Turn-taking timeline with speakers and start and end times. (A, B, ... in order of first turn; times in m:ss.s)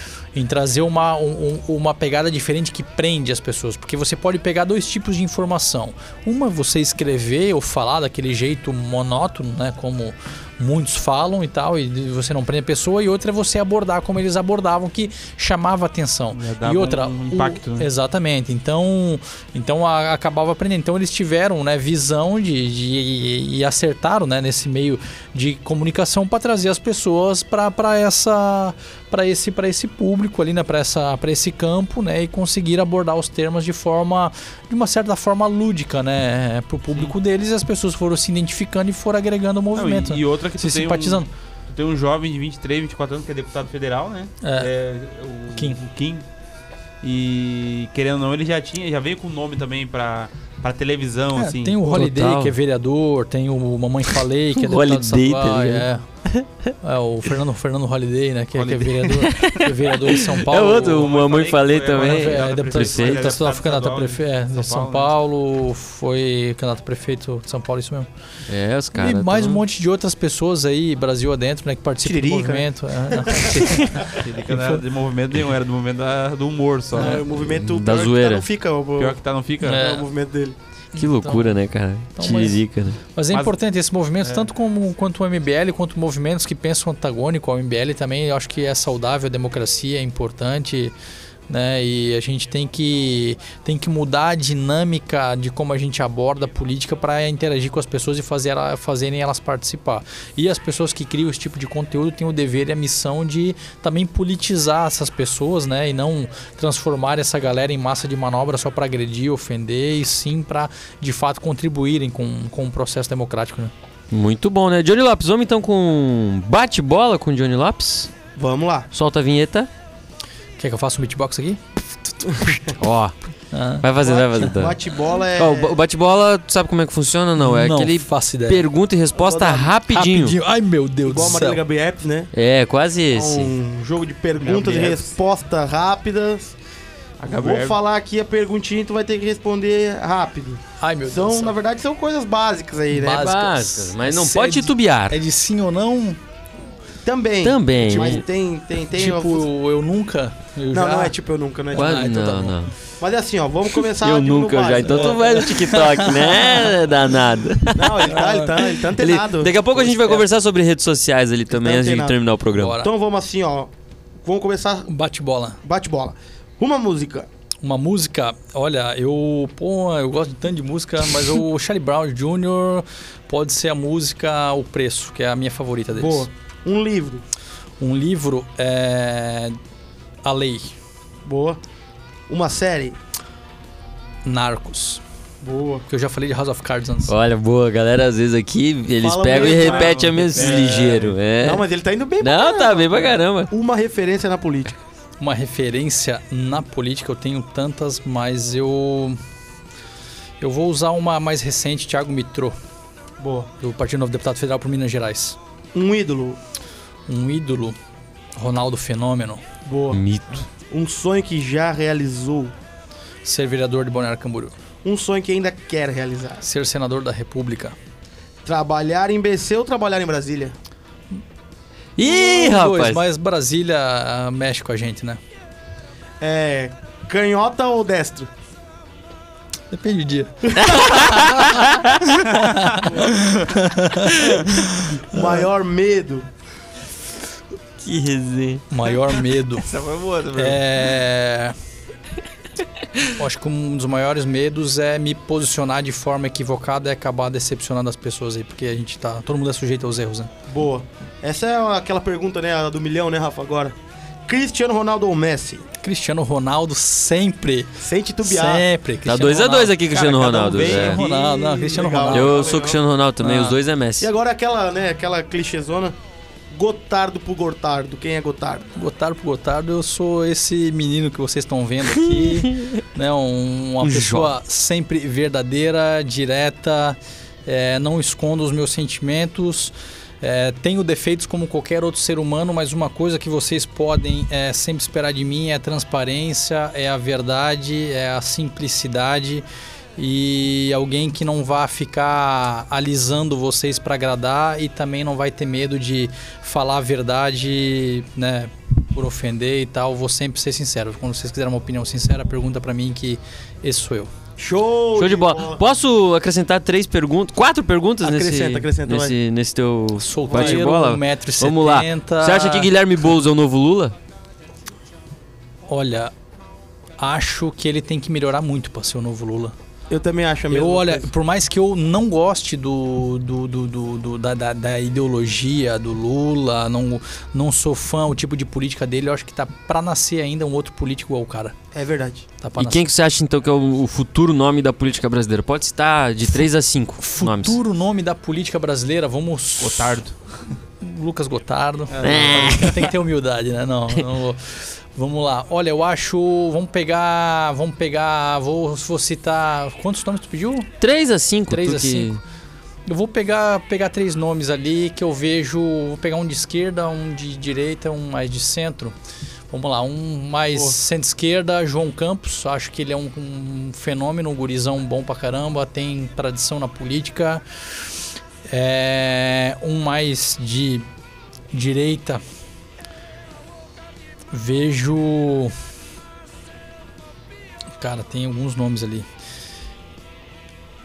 0:00.3-0:41.3 A
0:16.3-0:17.9 B
0:39.7-0:46.2 B
0:44.4-0:44.7 A
0:47.0-0:51.8 B
0:51.4-0:56.0 A
0:51.9-0:52.5 C
0:54.5-0:56.7 C
0:56.8-1:01.1 A
0:58.5-0:59.7 B
0:59.2-1:03.3 C
1:00.4-1:05.1 B
1:01.9-1:08.1 A
1:08.5-1:09.6 C
1:08.9-1:14.8 A
1:12.0-1:13.6 D
1:13.5-1:14.0 C
1:14.1-1:17.2 B
1:16.9-1:17.2 A
1:16.9-1:20.6 D
1:17.3-1:18.4 C
1:19.0-1:19.9 B
1:19.6-1:20.1 A
1:20.9-1:23.0 C
1:20.9-1:21.6 A
1:22.1-1:30.9 A
1:24.2-1:24.5 B
1:31.5-1:53.7 A
1:54.1-1:58.1 C
1:58.4-1:58.9 D
1:58.9-1:59.7 C
2:00.6-2:02.6 A
2:02.8-2:03.2 C
2:03.5-2:03.9 A
2:03.8-2:10.4 C
2:04.0-2:05.8 D
2:07.4-2:08.6 A
2:09.2-2:09.7 D
2:09.9-2:11.6 A
2:11.0-2:12.3 D
2:12.3-2:13.5 C
2:13.1-2:16.5 D
2:14.4-2:15.2 B
2:17.2-2:17.8 B
2:17.3-2:23.3 D
2:20.8-2:21.5 A
2:22.9-2:26.2 A
2:23.0-2:25.2 C
2:27.0-2:29.5 D
2:27.4-2:28.2 C
2:27.9-2:28.2 A
2:28.9-2:31.1 A
2:30.7-2:32.1 D
2:31.7-2:32.7 A
2:31.7-2:32.7 C
2:33.0-2:35.5 D
2:34.0-2:38.2 C
2:34.9-2:36.7 A
2:37.7-2:40.2 D
2:38.0-2:38.8 A
2:38.9-2:42.8 C
2:41.5-2:42.2 D
2:42.5-2:42.9 A
2:42.8-2:43.7 D
2:44.2-2:44.9 D
2:44.9-2:45.6 A
2:45.6-2:47.3 D
2:47.6-2:56.3 A
2:56.0-2:57.2 D
2:57.8-2:59.6 A
3:00.2-3:00.8 A
3:01.2-3:01.6 D
3:02.3-3:03.0 D
3:04.2-3:05.0 A
3:05.4-3:05.8 D
3:05.9-3:07.1 A
3:07.1-3:11.6 C
3:09.0-3:14.8 D
3:09.3-3:11.1 B
3:12.2-3:13.5 C
3:15.2-3:19.2 A
3:20.4-3:22.5 A
3:23.2-3:23.5 D
3:23.6-3:25.4 A
3:25.7-3:26.4 D
3:27.1-3:27.7 A
3:28.4-3:29.4 A
3:29.6-3:32.5 D
3:29.9-3:30.4 C
3:33.2-3:34.5 A
3:34.8-3:36.4 D
3:36.4-3:37.8 A
3:38.4-3:40.5 D
3:42.0-3:43.0 C
3:42.0-3:45.2 A
3:46.2-3:48.3 D
3:49.7-3:55.5 A
3:50.6-3:52.0 C
3:53.0-3:53.4 B
3:55.1-3:56.3 D
3:57.8-3:58.6 C
3:58.7-3:59.7 A
3:58.9-4:00.6 B
4:00.3-4:01.6 A
4:03.2-4:10.3 A
4:10.5-4:13.7 D
4:14.2-4:15.7 D
4:15.8-4:19.9 A
4:17.8-4:18.6 D
4:19.0-4:21.0 C
4:20.0-4:21.0 B
4:20.1-4:22.8 D
4:20.7-4:22.4 A
4:22.1-4:24.1 C
4:23.2-4:23.6 A
4:24.0-4:25.9 D
4:26.5-4:28.7 D
4:28.7-5:04.1 A
4:31.9-4:32.8 C
4:33.8-4:34.3 C
5:04.4-5:05.6 D
5:04.9-5:13.9 C
5:08.0-5:09.2 D
5:10.0-5:13.1 A
5:10.3-5:10.6 D
5:15.6-5:16.1 A
5:17.0-5:19.5 A
5:19.9-5:21.1 D
5:20.5-5:31.5 A
5:31.7-5:32.3 D
5:32.4-5:32.8 A
5:32.6-5:37.6 C
5:37.0-5:40.0 A
5:39.6-5:40.4 B
5:40.8-5:50.7 A
5:41.9-5:42.9 B
5:42.0-5:42.8 C
5:50.8-5:52.2 C
5:51.5-5:52.2 A
5:52.9-5:59.0 A
5:59.5-6:07.9 A
6:08.4-6:10.8 A
6:11.5-6:12.2 A
6:14.3-6:15.5 A
6:17.8-6:19.1 A